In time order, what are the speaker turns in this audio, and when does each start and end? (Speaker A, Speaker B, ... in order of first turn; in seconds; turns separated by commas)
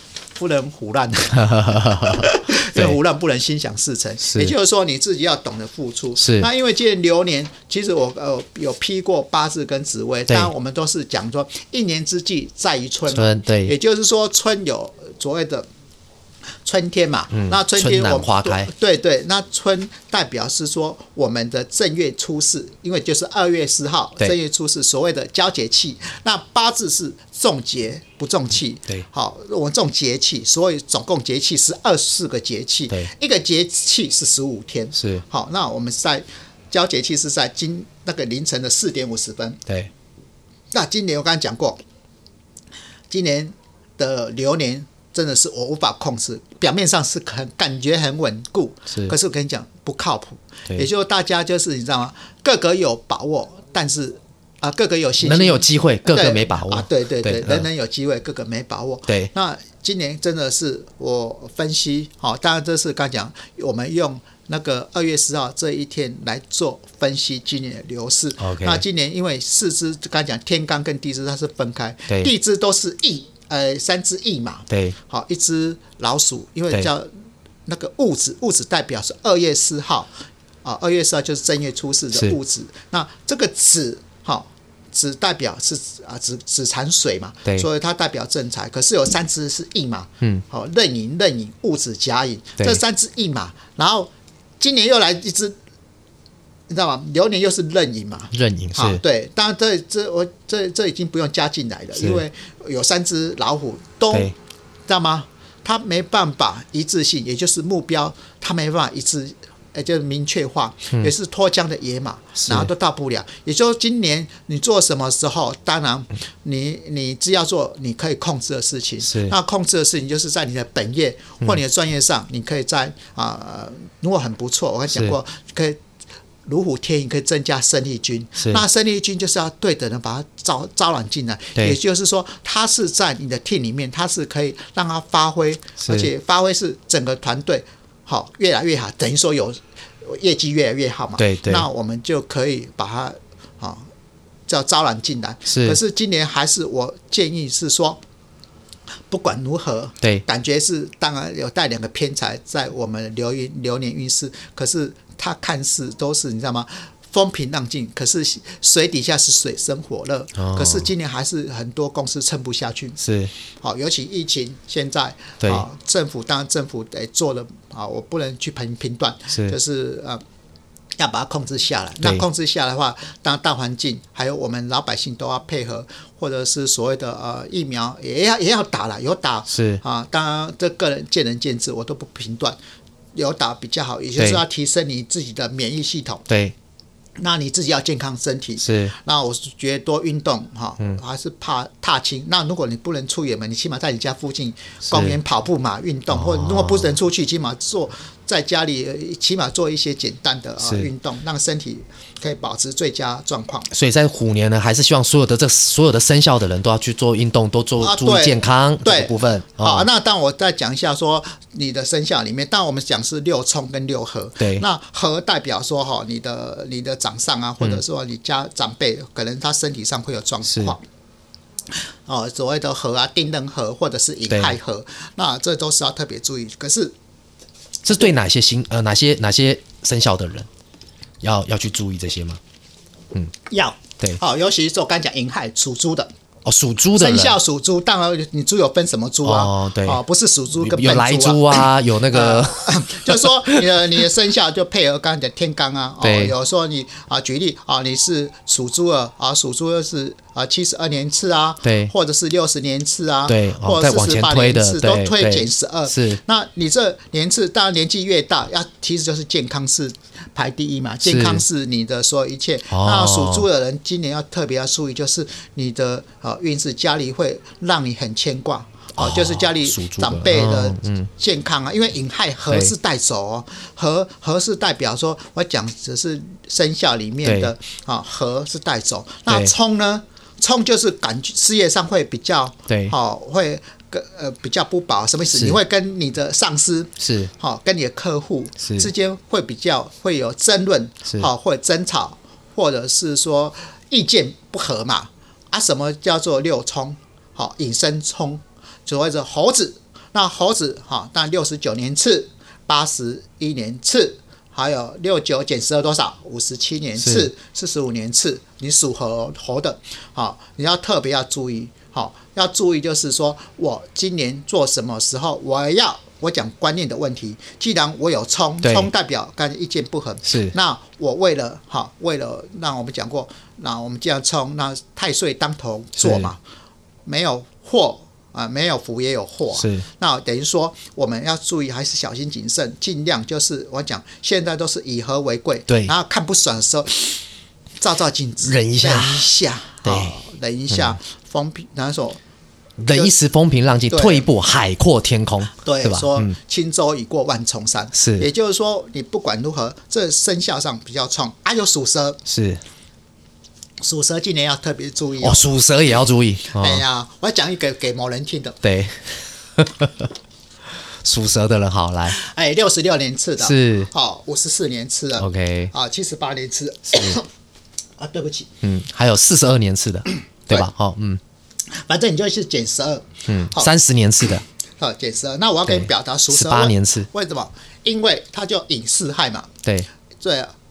Speaker A: 0.4-15.7, Speaker B: 1.4-3.0, Speaker B: 4.2-4.5, Speaker B: 6.2-6.5, Speaker B: 13.1-13.7, Speaker A: 16.6-39.6, Speaker B: 17.3-18.7, Speaker B: 35.0-35.2, Speaker A: 40.7-41.8, Speaker A: 43.1-77.1, Speaker B: 55.2-57.7, Speaker B: 68.4-68.8, Speaker B: 74.7-75.0, Speaker A: 77.7-80.1, Speaker A: 80.6-95.6, Speaker A: 96.7-104.3, Speaker B: 98.3-99.0, Speaker A: 104.9-125.8, Speaker B: 112.4-112.7, Speaker B: 119.1-119.3, Speaker A: 126.5-143.9, Speaker B: 135.8-136.1, Speaker B: 141.2-141.7, Speaker A: 144.5-148.0, Speaker B: 145.5-145.8, Speaker A: 149.1-163.0, Speaker B: 160.4-160.9, Speaker B: 163.0-163.3, Speaker A: 163.6-170.2, Speaker A: 171.0-182.6, Speaker B: 179.5-179.8, Speaker A: 183.2-186.2, Speaker B: 186.3-186.6, Speaker A: 187.2-203.7, Speaker B: 188.6-188.9, Speaker B: 194.9-195.2, Speaker B: 196.1-196.9, Speaker B: 200.6-200.9, Speaker B: 203.7-209.9, Speaker A: 207.8-220.8, Speaker B: 214.4-214.6, Speaker B: 220.4-220.8, Speaker A: 222.1-226.9, Speaker B: 224.3-224.6, Speaker B: 227.8-230.5, Speaker B: 231.2-232.4, Speaker A: 233.5-236.1, Speaker B: 236.4-237.4, Speaker A: 237.0-326.4, Speaker B: 239.2-240.0, Speaker B: 240.6-244.0, Speaker B: 246.0-246.3, Speaker B: 251.6-251.9, Speaker B: 253.3-256.2, Speaker B: 261.0-261.4, Speaker B: 262.7-263.5, Speaker B: 269.0-271.1, Speaker B: 277.2-277.5, Speaker B: 279.3-279.5, Speaker B: 282.7-282.9, Speaker B: 287.0-287.3, Speaker B: 288.6-288.9, Speaker B: 307.0-307.3, Speaker B: 318.6-318.9, Speaker B: 320.2-320.5, Speaker B: 326.0-326.3, Speaker A: 327.1-337.2, Speaker B: 329.6-329.9, Speaker A: 337.8-342.2, Speaker B: 338.4-339.3, Speaker B: 339.9-340.2, Speaker B: 342.8-346.4, Speaker A: 343.9-344.3, Speaker A: 345.6-352.2, Speaker B: 347.9-348.3, Speaker B: 352.3-352.6, Speaker A: 353.8-355.5, Speaker B: 355.2-356.8, Speaker A: 356.5-358.6, Speaker B: 358.6-360.1, Speaker B: 361.0-362.2, Speaker A: 362.1-367.3, Speaker B: 363.4-363.9, Speaker B: 365.2-365.7, Speaker B: 366.9-367.2, Speaker A: 368.0-368.5, Speaker B: 368.6-371.2, Speaker A: 371.7-373.7, Speaker B: 373.3-374.4, Speaker A: 374.8-379.5, Speaker B: 375.7-377.1, Speaker A: 380.2-380.5